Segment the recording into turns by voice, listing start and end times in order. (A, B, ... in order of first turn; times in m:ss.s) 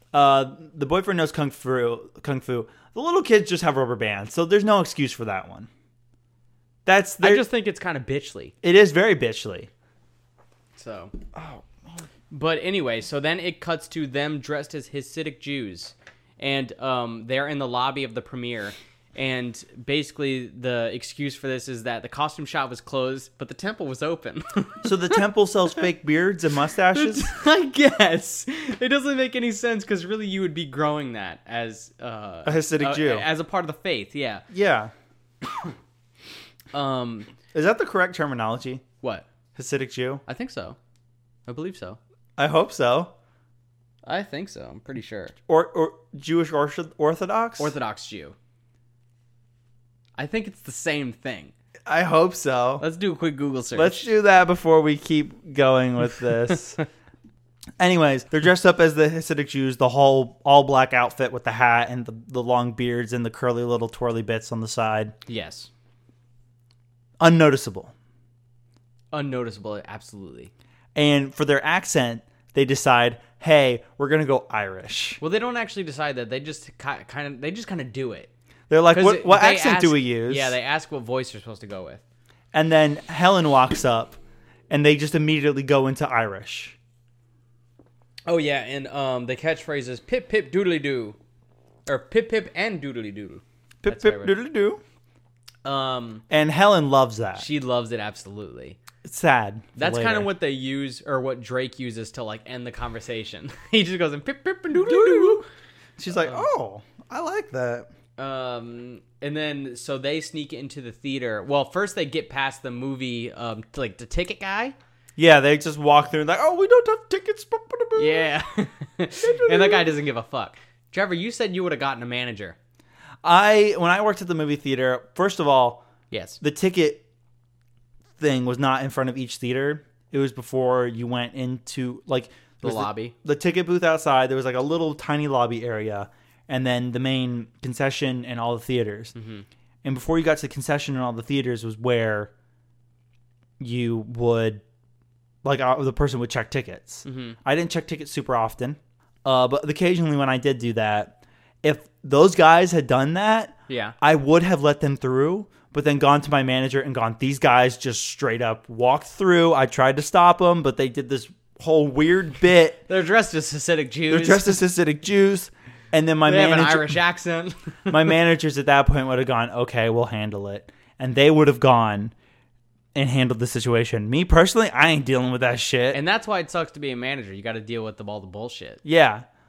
0:00.1-0:05.7 A
0:06.8-0:07.4 A
0:07.2-0:08.5 B
0:08.6-0:09.7 A
0:10.8-0:11.1 B
0:11.3-0:12.0 A
0:12.3-0:25.2 B
0:24.8-0:27.3 A
0:26.9-0:34.4 B
0:32.4-0:33.3 A
0:34.5-0:34.9 A
0:36.7-0:37.3 B
0:37.5-0:38.8 A
0:39.0-0:39.3 B
0:39.5-0:40.2 A
0:40.3-0:40.8 B
0:41.5-0:42.0 B
0:42.4-0:43.1 A
0:44.0-0:45.3 B
0:45.5-0:47.7 A
0:47.6-0:48.3 B
0:50.2-0:51.5 B
0:51.8-0:52.8 A
0:52.8-0:54.1 B
0:53.7-0:56.8 A
0:57.8-1:05.1 A
1:05.3-1:05.7 B
1:07.2-1:07.9 A
1:09.1-1:10.5 B
1:10.9-1:15.2 A
1:15.2-1:18.3 B
1:18.7-1:20.6 A
1:18.9-1:22.0 B
1:22.5-1:24.2 A
1:24.7-1:26.8 A
1:28.2-1:31.2 B
1:31.9-1:34.3 B
1:33.8-1:34.8 A
1:35.6-1:36.2 B
1:36.3-1:37.4 A
1:37.4-1:38.8 B
1:39.0-1:40.3 A
1:39.8-1:45.4 B
1:44.7-1:45.4 A
1:46.0-1:47.9 A
1:46.2-1:46.4 B
1:48.2-1:54.7 B
1:55.2-1:58.3 A
1:58.0-2:02.6 B
1:59.2-1:59.9 A
2:03.2-2:05.8 A
2:06.1-2:06.4 B
2:06.4-2:07.0 A
2:08.2-2:19.1 A
2:12.6-2:13.1 B
2:19.1-2:19.4 B
2:19.8-2:22.3 A
2:23.6-2:24.6 A
2:25.4-2:42.8 A
2:27.0-2:27.4 B
2:33.7-2:34.0 B
2:42.9-2:44.6 B
2:44.1-2:47.0 A
2:46.2-2:48.2 B
2:47.9-2:52.1 A
2:52.9-2:56.0 A
2:55.9-2:58.8 B
2:58.8-2:59.2 A